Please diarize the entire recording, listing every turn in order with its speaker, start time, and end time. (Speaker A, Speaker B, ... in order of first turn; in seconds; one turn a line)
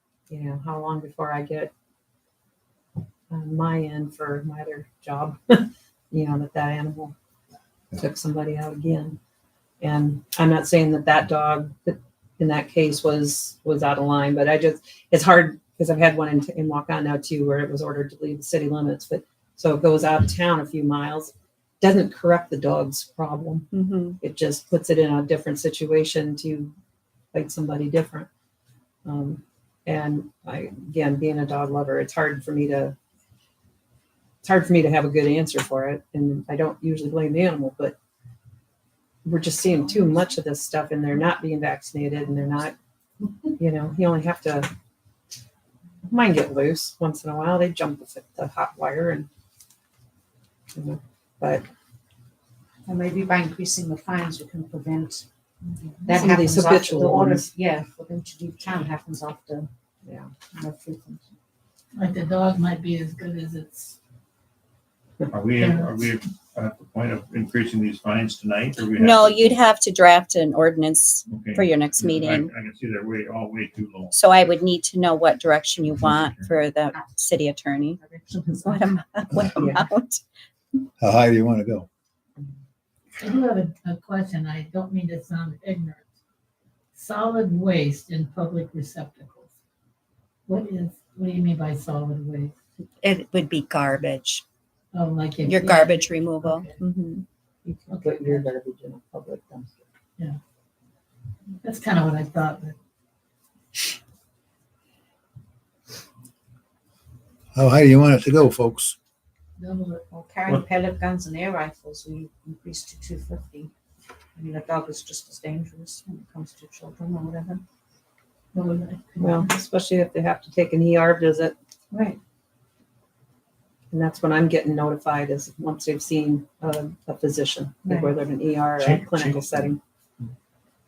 Speaker A: 0.3-1.7
Speaker A: 3.3-7.1
Speaker A: 7.9-9.2
Speaker A: 9.8-26.7
Speaker B: 23.7-24.2
Speaker A: 27.3-28.3
Speaker A: 29.0-33.0
Speaker A: 34.4-37.9
Speaker A: 39.2-42.7
Speaker A: 43.6-44.7
Speaker A: 46.1-49.3
Speaker A: 50.7-51.7
Speaker C: 52.9-59.7
Speaker A: 56.1-57.5
Speaker A: 60.0-60.3
Speaker C: 60.4-61.3
Speaker D: 61.9-63.9
Speaker E: 65.3-69.6
Speaker D: 65.6-65.9
Speaker B: 69.0-72.5
Speaker E: 71.3-74.1
Speaker B: 74.1-80.2
Speaker E: 76.0-76.5
Speaker C: 78.0-78.8
Speaker A: 79.4-79.8
Speaker F: 81.0-81.9
Speaker D: 83.2-86.0
Speaker D: 87.0-89.5
Speaker D: 90.5-92.5
Speaker B: 93.0-94.4
Speaker D: 94.9-96.7
Speaker B: 95.4-97.2
Speaker A: 97.7-99.8
Speaker D: 97.9-98.5
Speaker D: 101.6-102.7
Speaker F: 107.5-108.9
Speaker D: 109.6-110.0
Speaker C: 110.1-113.7
Speaker C: 114.3-117.6
Speaker D: 118.5-119.3
Speaker A: 119.2-121.5
Speaker C: 121.9-122.2
Speaker A: 123.9-129.8
Speaker C: 127.8-128.1
Speaker E: 128.8-130.3